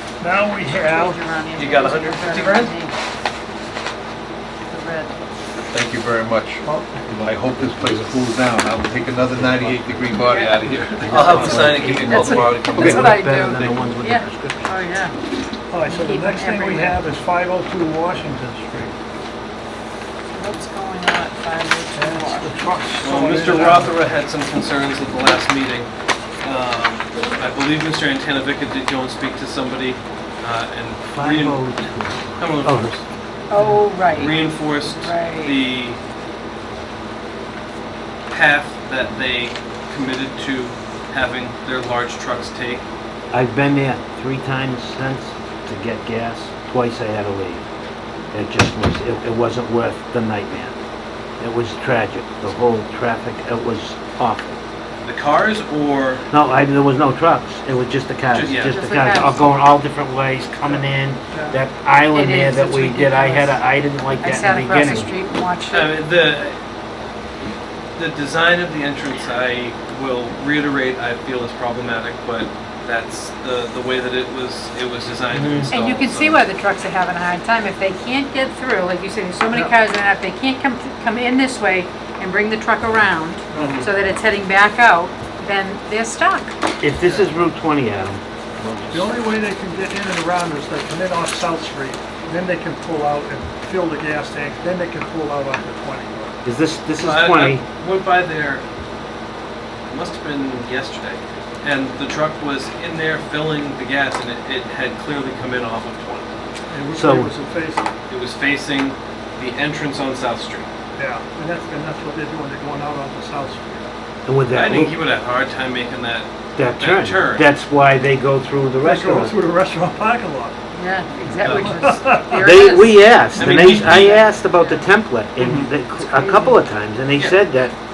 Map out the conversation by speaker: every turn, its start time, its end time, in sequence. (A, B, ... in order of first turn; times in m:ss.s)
0:00.2-0:01.2 A
0:00.6-0:02.9 B
0:01.5-0:02.7 C
0:04.7-0:05.1 B
0:05.7-0:11.8 D
0:06.6-0:07.0 A
0:09.3-0:10.1 E
0:10.2-0:10.6 B
0:10.7-0:11.8 A
0:11.0-0:14.7 E
0:11.0-0:13.8 C
0:11.3-0:15.2 B
0:12.7-0:13.1 D
0:15.7-0:18.9 A
0:15.8-0:17.0 B
0:20.3-0:22.8 B
0:21.9-0:24.0 A
0:23.0-0:25.9 C
0:26.4-0:31.6 C
0:31.1-0:33.0 E
0:32.4-0:33.0 C
0:33.5-0:35.6 B
0:34.0-0:36.0 C
0:38.3-0:42.8 C
0:43.3-0:47.6 E
0:48.3-0:50.7 E
0:51.4-0:54.6 E
0:55.0-0:56.2 C
0:56.3-1:05.1 E
0:58.3-0:58.7 C
0:58.6-0:59.6 B
1:01.3-1:01.6 A
1:02.1-1:03.6 B
1:04.1-1:05.9 B
1:05.7-1:06.6 C
1:08.0-1:16.4 C
1:15.3-1:15.7 E
1:15.7-1:26.5 B
1:23.5-1:23.9 A
1:23.6-1:23.8 C
1:26.8-1:29.1 E
1:27.0-1:27.3 A
1:28.9-1:36.4 A
1:36.4-1:37.6 E
1:37.0-1:38.6 C
1:39.9-1:46.3 C
1:46.7-1:47.9 A
1:46.9-1:47.3 E
1:48.1-1:50.7 C
1:51.0-1:53.9 A
1:54.2-1:55.0 E
1:54.5-1:57.5 C
1:56.6-1:59.4 E
1:58.8-2:00.6 A
2:00.7-2:03.1 B
2:01.2-2:02.5 A
2:01.4-2:01.8 C
2:02.4-2:07.7 E
2:03.3-2:04.1 C
2:03.8-2:04.8 B
2:05.8-2:06.6 B